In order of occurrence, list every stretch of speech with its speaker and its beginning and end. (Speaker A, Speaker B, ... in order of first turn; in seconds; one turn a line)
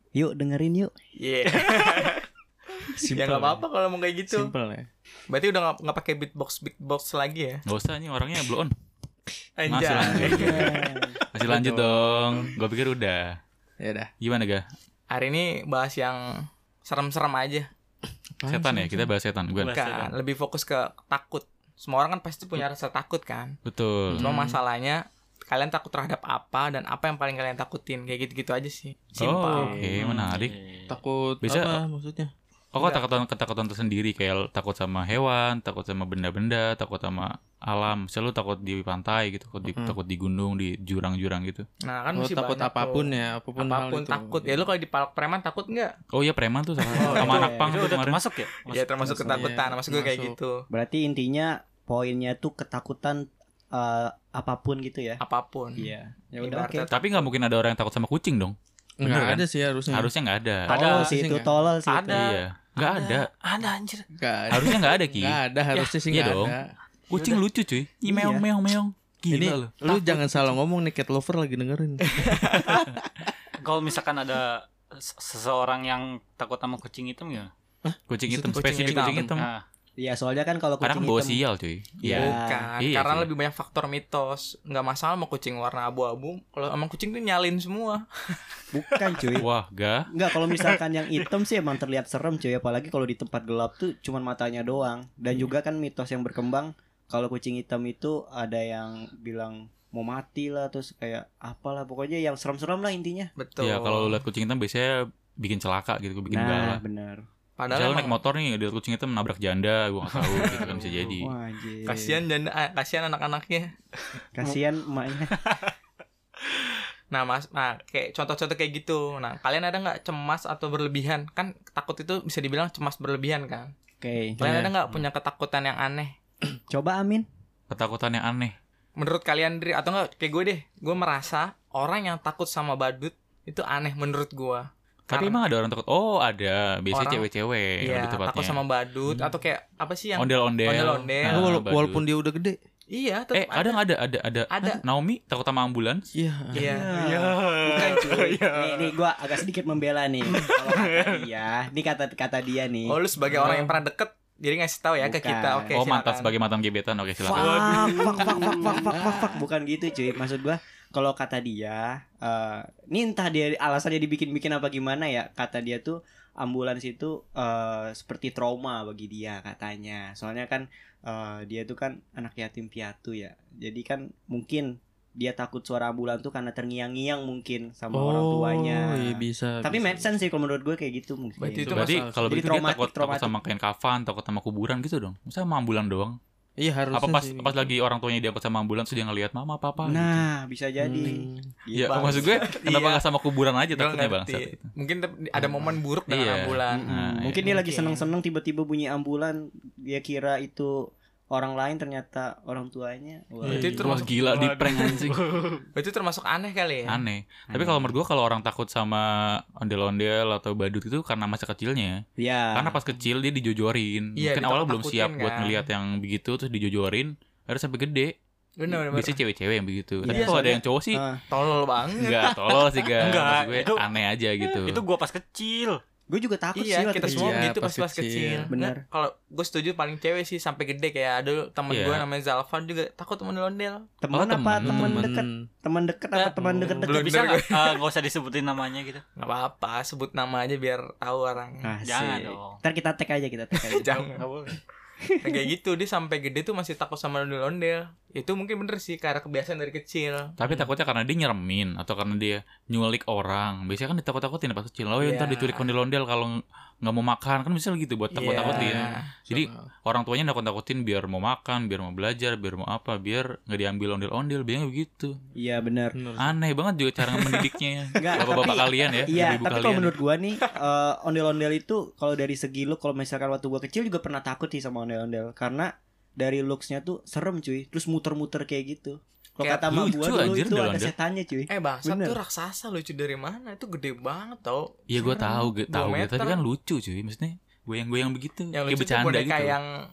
Speaker A: 0.1-0.9
Speaker B: 1.2-2.3
Speaker C: 2.9-3.6
Speaker B: 3.1-4.5
Speaker C: 4.3-4.9
Speaker B: 5.3-7.6
Speaker D: 7.7-8.7
Speaker E: 9.6-11.1
Speaker B: 9.6-10.6
Speaker D: 9.7-10.8
Speaker A: 10.3-11.2
Speaker D: 11.3-13.4
Speaker C: 11.5-12.6
Speaker C: 13.8-14.1
Speaker D: 14.2-14.7
Speaker B: 15.1-17.7
Speaker C: 18.4-19.1
Speaker D: 18.4-19.7
Speaker E: 19.6-20.2
Speaker B: 19.7-23.6
Speaker D: 23.7-24.5
Speaker C: 24.1-24.5
Speaker B: 24.2-29.8
Speaker D: 29.2-30.6
Speaker C: 29.6-32.3
Speaker E: 30.3-31.0
Speaker D: 31.4-31.8
Speaker D: 32.7-41.7
Speaker B: 32.8-33.0
Speaker B: 41.8-46.0
Speaker C: 42.1-44.7
Speaker D: 46.1-48.2
Speaker E: 46.9-49.3
Speaker C: 47.0-47.5
Speaker A: 47.0-47.7
Speaker B: 47.0-47.3
Speaker B: 48.7-50.6
Speaker C: 49.0-50.3
Speaker A: 50.7-55.2
Speaker B: 55.2-57.3
Speaker A: 55.8-56.9
Speaker D: 56.9-60.8
Speaker C: 59.0-60.1
Speaker E: 60.7-61.2
Speaker A: 60.7-62.3
Speaker C: 60.8-61.5
Speaker E: 61.9-64.1
Speaker D: 62.1-63.3
Speaker C: 64.2-66.7
Speaker D: 64.5-65.4
Speaker D: 66.1-66.6
Speaker D: 67.1-69.8
Speaker E: 67.1-67.4
Speaker A: 68.1-68.5
Speaker C: 69.3-72.9
Speaker B: 72.2-72.8
Speaker E: 73.6-77.5
Speaker C: 77.8-79.4
Speaker D: 78.1-79.5
Speaker B: 78.5-79.3
Speaker E: 79.4-79.6
Speaker A: 80.0-81.4
Speaker D: 80.8-83.3
Speaker A: 82.0-82.7
Speaker B: 82.1-88.3
Speaker A: 88.7-89.5
Speaker D: 89.4-90.1
Speaker A: 90.1-103.3
Speaker E: 90.4-91.3
Speaker B: 103.4-104.2
Speaker D: 103.6-106.8
Speaker A: 106.3-107.2
Speaker B: 107.6-108.2
Speaker D: 107.7-111.3
Speaker B: 110.1-110.6
Speaker E: 110.4-111.1
Speaker A: 111.2-112.2
Speaker B: 111.8-113.7
Speaker A: 114.3-115.4
Speaker B: 117.1-123.7
Speaker A: 124.0-124.4
Speaker B: 124.4-126.2
Speaker D: 124.4-124.7
Speaker A: 126.7-127.3
Speaker D: 127.7-128.6
Speaker B: 129.0-135.4
Speaker D: 135.1-138.6
Speaker B: 136.9-137.2
Speaker B: 137.8-141.5
Speaker D: 140.2-142.1
Speaker C: 141.3-142.6
Speaker B: 142.9-143.8
Speaker D: 143.3-146.1
Speaker B: 144.5-144.8
Speaker C: 146.2-146.7
Speaker B: 146.5-146.9
Speaker A: 146.6-153.0
Speaker E: 146.9-149.0
Speaker E: 150.3-151.3
Speaker B: 152.8-156.3
Speaker C: 153.3-153.8
Speaker A: 155.0-155.8
Speaker D: 155.7-157.8
Speaker A: 157.3-181.7
Speaker E: 157.3-159.2
Speaker C: 158.5-158.8
Speaker C: 177.9-180.0
Speaker B: 181.4-182.2
Speaker C: 181.7-182.6
Speaker D: 181.7-186.2
Speaker A: 182.2-183.4
Speaker C: 186.6-187.7
Speaker D: 186.9-190.2
Speaker A: 189.9-192.4
Speaker C: 190.8-191.5
Speaker D: 191.7-194.7
Speaker B: 191.8-193.1
Speaker B: 193.7-196.9
Speaker D: 196.1-197.6
Speaker A: 196.7-203.9
Speaker B: 197.4-198.1
Speaker B: 203.4-205.0
Speaker D: 203.5-205.2
Speaker E: 204.2-205.6
Speaker B: 205.8-207.1
Speaker D: 206.9-212.0
Speaker A: 207.5-208.0
Speaker A: 212.2-212.8
Speaker D: 212.5-218.1
Speaker B: 214.2-215.6
Speaker B: 218.6-219.2
Speaker D: 218.7-221.0
Speaker A: 220.0-221.2
Speaker B: 220.1-220.5
Speaker B: 221.3-222.3
Speaker D: 222.0-224.8
Speaker E: 223.0-223.8
Speaker E: 224.5-225.8
Speaker A: 226.1-227.4
Speaker B: 226.6-233.9
Speaker C: 227.1-228.5
Speaker A: 228.5-228.8
Speaker D: 231.7-232.1
Speaker A: 234.0-237.4
Speaker D: 234.1-235.1
Speaker C: 234.6-235.4
Speaker E: 236.2-239.0
Speaker C: 236.4-236.8
Speaker B: 236.8-237.8
Speaker B: 239.2-241.7
Speaker A: 241.6-243.9
Speaker E: 241.8-242.6
Speaker B: 243.7-244.2
Speaker E: 243.8-244.6
Speaker A: 245.0-245.5
Speaker B: 245.2-250.3
Speaker D: 250.4-256.3
Speaker B: 255.0-255.7
Speaker D: 256.8-265.1
Speaker B: 258.1-259.0
Speaker A: 258.3-258.7
Speaker C: 258.4-259.7
Speaker A: 265.4-266.0
Speaker C: 265.9-266.4
Speaker D: 266.2-269.9
Speaker B: 267.0-267.5
Speaker A: 268.0-282.2
Speaker B: 268.5-268.9
Speaker B: 279.4-279.7
Speaker D: 279.6-280.9
Speaker B: 281.5-286.4
Speaker D: 284.9-289.6
Speaker A: 285.0-285.5
Speaker B: 288.5-289.7